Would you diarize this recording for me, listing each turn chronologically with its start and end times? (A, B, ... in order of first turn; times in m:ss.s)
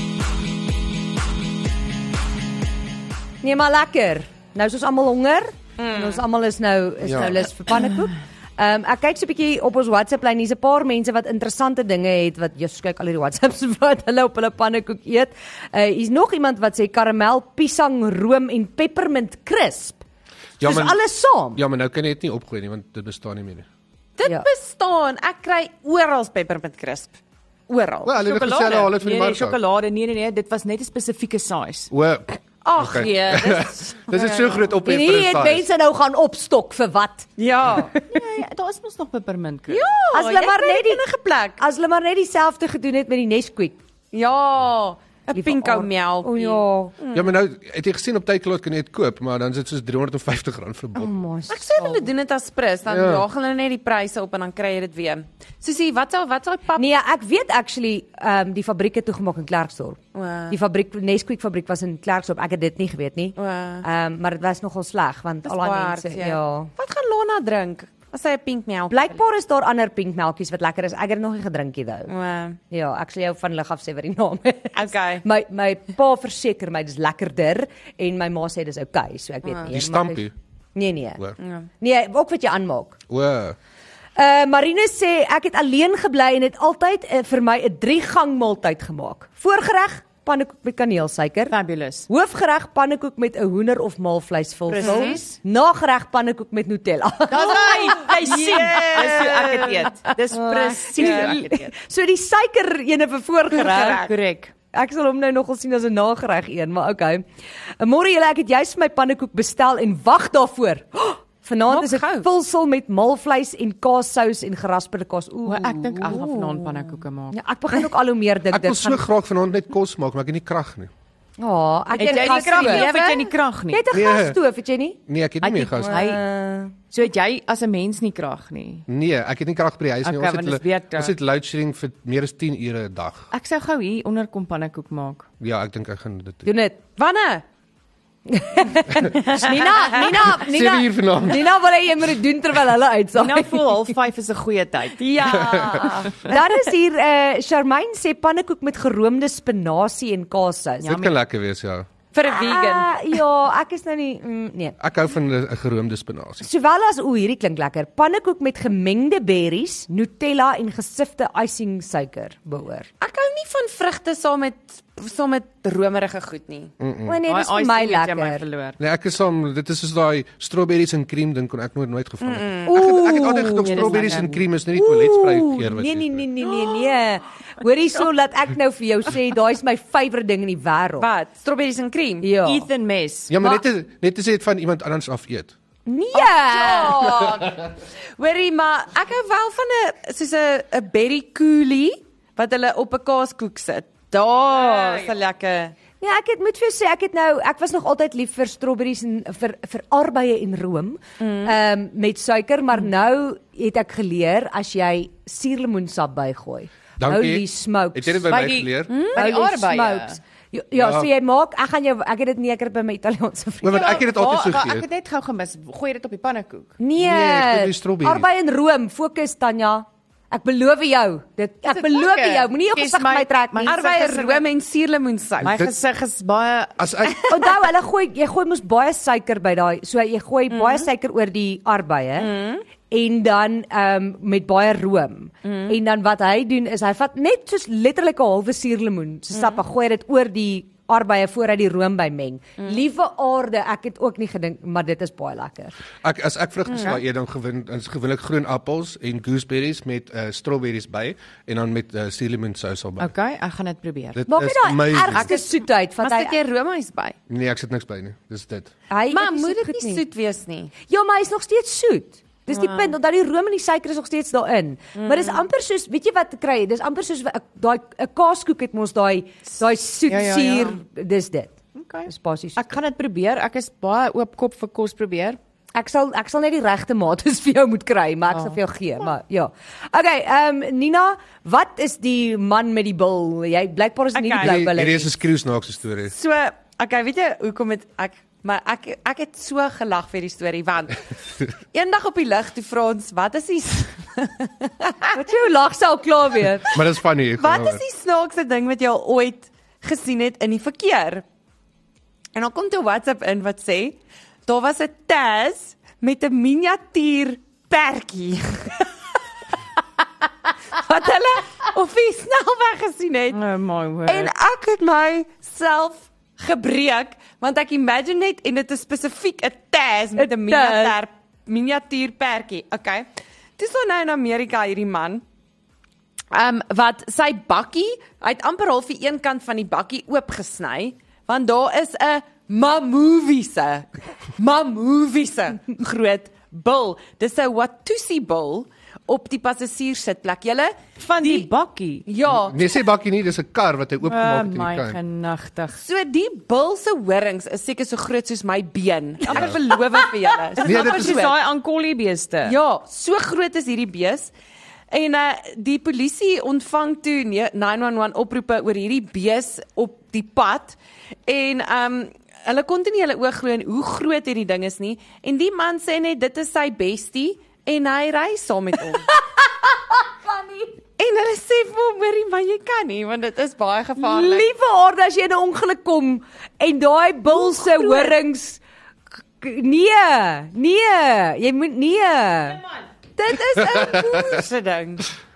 0:03.4-0:20.0 A
0:05.8-0:06.2 B
0:07.0-0:07.4 C
0:20.6-0:21.0 C
0:20.6-0:21.6 A
0:21.5-0:23.7 C
0:24.2-0:27.2 B
0:27.7-0:28.2 B
0:28.0-0:29.6 C
0:28.2-0:31.9 D
0:31.9-0:35.7 C
0:32.6-0:34.7 B
0:34.8-0:37.9 A
0:37.4-0:37.9 B
0:38.1-0:40.0 D
0:39.7-0:41.6 B
0:40.1-0:41.0 A
0:41.6-0:43.8 A
0:44.1-0:47.3 B
0:45.3-0:46.9 A
0:47.1-0:51.1 C
0:50.9-0:52.1 A
0:51.5-0:56.9 B
0:52.9-0:53.2 C
0:56.8-1:00.0 A
1:00.1-1:00.6 B
1:00.5-1:06.7 A
1:03.4-1:03.8 B
1:05.4-1:09.2 B
1:08.9-1:12.1 A
1:12.1-1:12.6 B
1:12.7-1:21.2 A
1:14.8-1:15.2 B
1:19.7-1:20.3 C
1:21.4-1:21.7 B
1:21.8-1:23.0 A
1:23.1-1:23.6 C
1:24.2-1:31.6 A
1:31.5-1:32.1 D
1:32.1-1:39.7 A
1:34.7-1:35.2 D
1:34.8-1:35.2 B
1:37.3-1:41.7 D
1:37.7-1:39.9 B
1:40.3-1:44.1 A
1:40.5-1:41.4 B
1:43.5-1:44.1 B
1:43.6-1:44.5 D
1:44.7-1:47.2 A
1:47.8-1:56.6 A
1:51.7-1:52.2 B
1:55.4-1:57.4 D
1:57.3-1:59.0 A
1:58.5-2:00.9 C
2:01.4-2:05.0 A
2:01.9-2:03.8 D
2:02.0-2:03.3 B
2:03.9-2:04.4 C
2:05.1-2:06.0 C
2:05.4-2:06.2 D
2:05.8-2:06.7 A
2:06.8-2:08.8 D
2:08.9-2:13.3 C
2:10.0-2:11.1 D
2:13.3-2:15.3 D
2:15.4-2:16.5 C
2:16.4-2:16.8 A
2:17.0-2:17.4 B
2:18.3-2:23.8 A
2:19.4-2:20.1 B
2:20.1-2:21.5 C
2:23.1-2:25.5 D
2:25.0-2:26.4 B
2:25.4-2:25.8 C
2:26.2-2:30.9 A
2:30.8-2:31.1 D
2:30.8-2:31.9 C
2:32.1-2:32.9 B
2:32.2-2:34.8 A
2:34.8-2:36.4 C
2:36.4-2:42.9 A
2:43.0-2:46.7 B
2:46.8-2:47.2 C
2:47.0-2:48.4 A
2:47.3-2:48.8 D
2:48.8-2:56.2 C
2:52.2-2:52.9 B
2:52.7-3:01.1 A
2:53.6-2:54.4 D
3:01.0-3:02.3 B
3:02.2-3:02.7 A
3:02.4-3:03.4 D
3:03.3-3:05.5 C
3:05.8-3:07.0 A
3:06.2-3:15.7 B
3:14.5-3:15.1 D
3:16.0-3:28.3 A
3:21.2-3:21.5 B
3:27.0-3:28.9 C
3:28.3-3:30.2 D
3:28.9-3:29.3 B
3:29.2-3:34.0 A
3:30.7-3:31.1 C
3:33.6-3:34.9 C
3:33.7-3:36.7 D
3:36.8-3:43.8 A
3:37.0-3:38.3 C
3:41.7-3:44.4 D
3:43.6-3:45.5 B
3:45.4-3:45.7 C
3:45.4-3:46.8 D
3:46.8-3:47.2 C
3:47.3-3:52.3 A
3:50.5-3:50.8 B
3:52.2-3:52.6 B
3:52.9-4:05.8 A
3:55.4-3:55.7 B
3:59.3-3:59.6 B
4:06.0-4:13.1 C
4:13.0-4:14.2 D
4:14.1-4:15.3 C
4:14.3-4:16.3 A
4:15.3-4:17.2 B
4:17.3-4:18.7 C
4:18.9-4:20.0 A
4:19.1-4:20.7 B
4:20.9-4:32.8 A
4:22.6-4:22.8 B
4:25.0-4:25.4 B
4:30.1-4:30.8 D
4:31.7-4:35.4 D
4:35.7-4:45.1 A
4:44.1-4:44.6 B
4:44.4-4:46.1 C
4:46.1-4:55.1 B
4:55.1-4:56.8 A
4:56.7-4:57.8 C
4:57.4-5:01.2 B
5:02.3-5:08.9 B
5:10.7-5:13.4 B
5:13.3-5:14.3 D
5:14.0-5:23.1 B
5:20.2-5:21.0 A
5:23.6-5:25.2 B
5:26.3-5:41.5 B
5:41.0-5:42.1 D
5:42.0-5:42.7 B
5:42.2-5:45.0 C
5:44.0-5:45.8 D
5:45.8-5:51.4 B
5:49.3-5:49.7 D
5:49.3-5:49.6 C
5:50.5-5:52.6 D
5:50.6-5:51.3 C
5:52.4-5:54.3 B
5:54.9-6:00.8 B
6:01.3-6:09.1 B
6:09.1-6:10.7 A
6:11.0-6:14.5 B
6:14.0-6:18.6 A
6:17.3-6:18.1 B
6:19.4-6:22.6 A
6:23.2-6:24.4 A
6:23.5-6:24.4 C
6:23.9-6:25.1 B